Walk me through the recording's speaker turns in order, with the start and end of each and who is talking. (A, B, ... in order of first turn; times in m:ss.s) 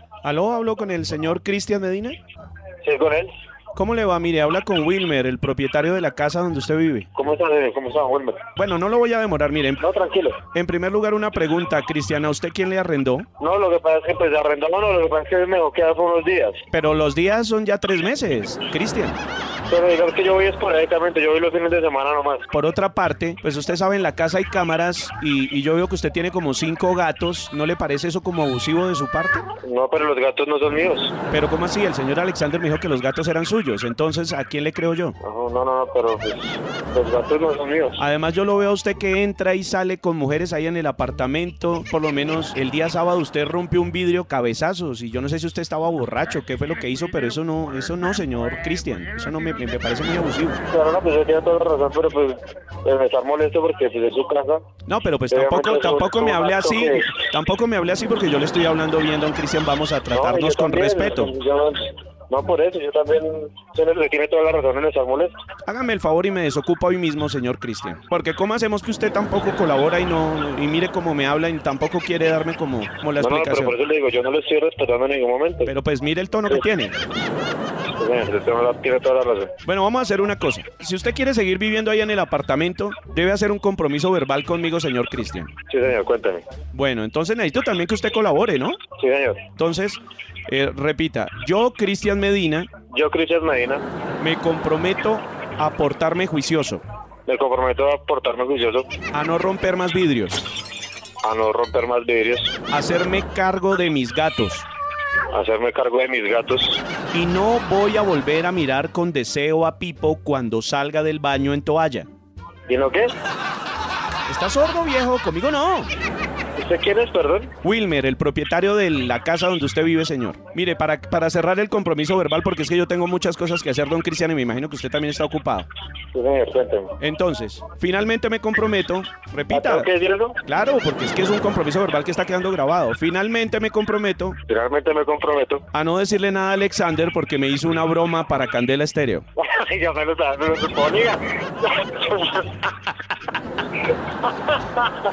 0:00.2-0:02.2 A
0:02.8-0:03.3 B
0:03.8-0:07.1 A
0:07.2-0:08.4 B
0:08.6-0:09.8 A
0:09.8-0:10.4 B
0:10.5-0:13.3 A
0:13.4-0:16.6 B
0:16.7-0:19.2 A
0:19.7-0:22.5 B
0:22.5-0:29.4 A
0:29.6-0:31.2 B
0:31.3-0:35.2 A
0:35.2-0:38.0 B
0:38.0-0:50.6 A
0:50.7-0:54.6 B
0:54.9-1:01.3 A
0:55.3-0:57.2 B
1:00.1-1:05.4 B
1:05.7-1:13.8 A
1:13.2-1:15.7 B
1:15.7-1:17.0 A
1:18.0-1:19.5 B
1:19.6-1:25.5 A
1:25.7-1:26.4 B
1:26.7-1:28.8 A
1:29.0-1:29.4 B
1:29.6-1:32.7 A
1:32.9-1:33.8 B
1:34.2-1:36.8 A
1:37.3-1:38.9 B
1:39.1-1:40.4 A
1:41.2-1:42.5 B
1:42.7-1:44.7 A
1:45.3-1:46.8 B
1:47.1-1:52.1 A
1:52.7-1:53.2 B
1:54.3-1:55.9 A
1:56.6-1:57.5 B
1:57.6-2:05.7 A
2:06.1-2:06.9 B
2:07.0-2:09.9 A
2:09.5-2:10.4 B
2:10.5-2:14.4 A
2:14.5-2:15.6 B
2:15.7-2:19.2 A
2:19.4-2:22.7 B